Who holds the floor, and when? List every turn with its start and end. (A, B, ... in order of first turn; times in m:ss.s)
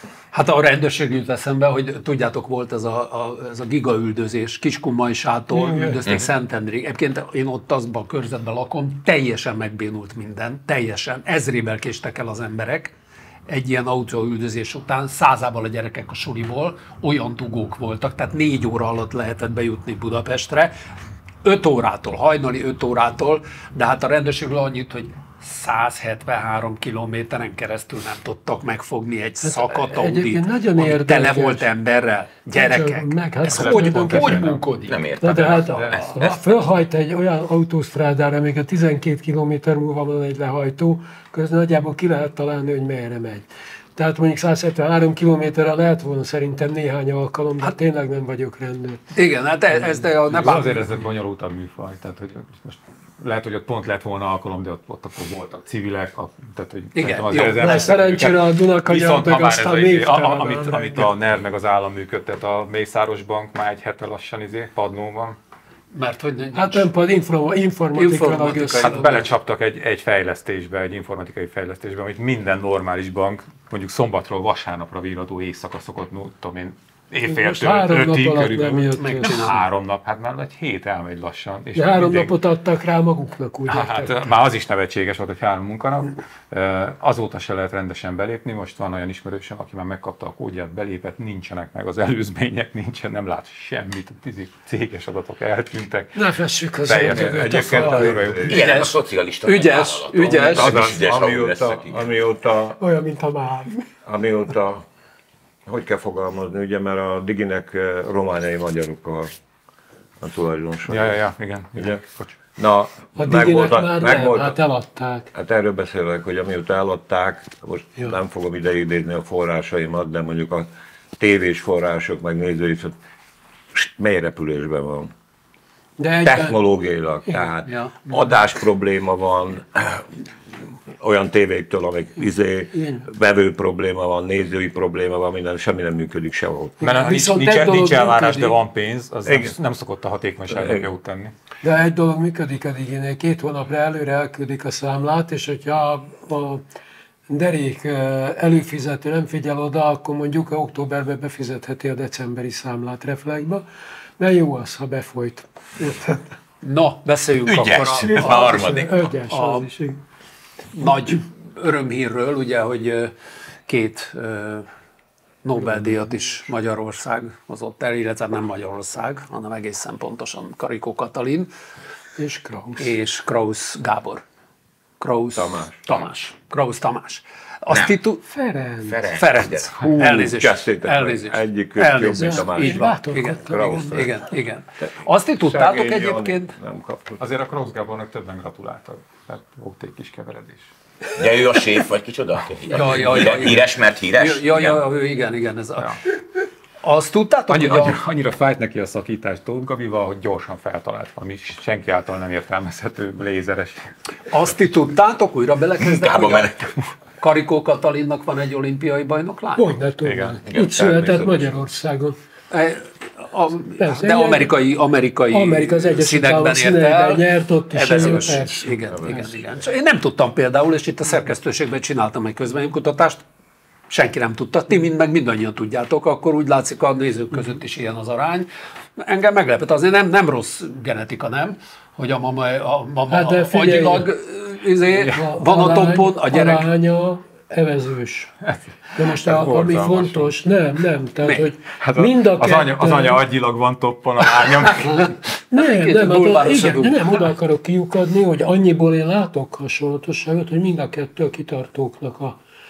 0:00.3-0:12.9 A
0:05.5-0:06.0 B
0:13.5-0:20.7 A
0:21.4-0:35.1 A
0:29.4-0:31.7 B
0:32.5-0:34.5 B
0:33.5-0:34.6 C
0:34.9-0:36.4 D
0:35.2-0:49.0 B
0:35.7-0:36.0 C
0:49.1-0:50.9 A
0:50.2-1:05.4 C
0:56.9-0:58.1 A
0:57.6-1:01.1 B
1:05.9-1:06.9 A
1:06.5-1:09.2 B
1:07.9-1:09.0 A
1:08.6-1:22.3 C
1:17.3-1:19.5 B
1:19.0-1:19.6 A
1:21.7-1:24.2 B
1:23.7-1:36.2 C
1:36.1-1:38.1 B
1:36.8-1:38.5 C
1:37.2-1:38.6 E
1:38.5-1:40.9 A
1:38.5-1:42.0 D
1:40.3-1:42.8 E
1:42.8-1:43.8 B
1:44.0-1:44.8 E
1:45.6-1:49.3 E
1:50.2-1:51.2 E
1:50.9-1:52.3 C
1:51.8-1:52.0 E
1:52.6-1:54.6 E
1:53.2-1:55.3 B
1:55.3-2:03.0 E
2:03.7-2:05.1 E
2:06.0-2:06.6 B
2:06.2-2:10.1 E
2:07.6-2:08.2 A
2:11.0-2:16.8 E
2:12.7-2:13.0 B
2:16.8-2:18.6 B
2:16.8-2:21.3 C
2:19.2-2:19.5 E
2:20.5-2:20.8 E
2:21.6-2:26.6 B
2:27.3-2:33.6 B
2:34.2-2:36.3 B
2:36.6-2:38.8 A
2:37.4-2:39.1 D
2:38.0-2:40.0 B
2:39.3-2:39.7 A
2:40.7-2:43.1 A
2:43.7-2:44.7 A
2:45.4-2:51.5 A
2:52.2-2:52.9 B
2:52.8-2:54.2 A
2:55.0-2:58.2 A
2:55.3-2:55.8 E
2:57.7-2:58.0 D
2:58.3-2:59.0 B
2:58.9-2:59.7 D
2:59.1-3:06.5 A
2:59.8-3:04.1 E
3:02.2-3:03.8 B
3:05.4-3:07.2 E
3:07.2-3:10.7 C
3:11.2-3:14.8 D
3:12.7-3:16.0 A
3:16.8-3:18.0 A
3:17.5-3:23.9 C
3:24.3-3:26.6 A
3:25.8-3:26.7 D
3:27.2-3:29.7 A
3:29.6-3:32.2 B
3:30.0-3:30.4 C
3:30.8-3:31.5 E
3:32.5-3:43.2 A
3:33.8-3:34.6 B
3:35.3-3:39.2 B
3:43.9-3:56.7 A
3:53.1-3:54.1 B
3:55.0-3:58.3 B
3:58.5-4:00.3 C
3:59.0-4:03.2 B
4:01.2-4:01.5 A
4:01.8-4:05.1 C
4:05.5-4:12.4 B
4:05.6-4:07.2 A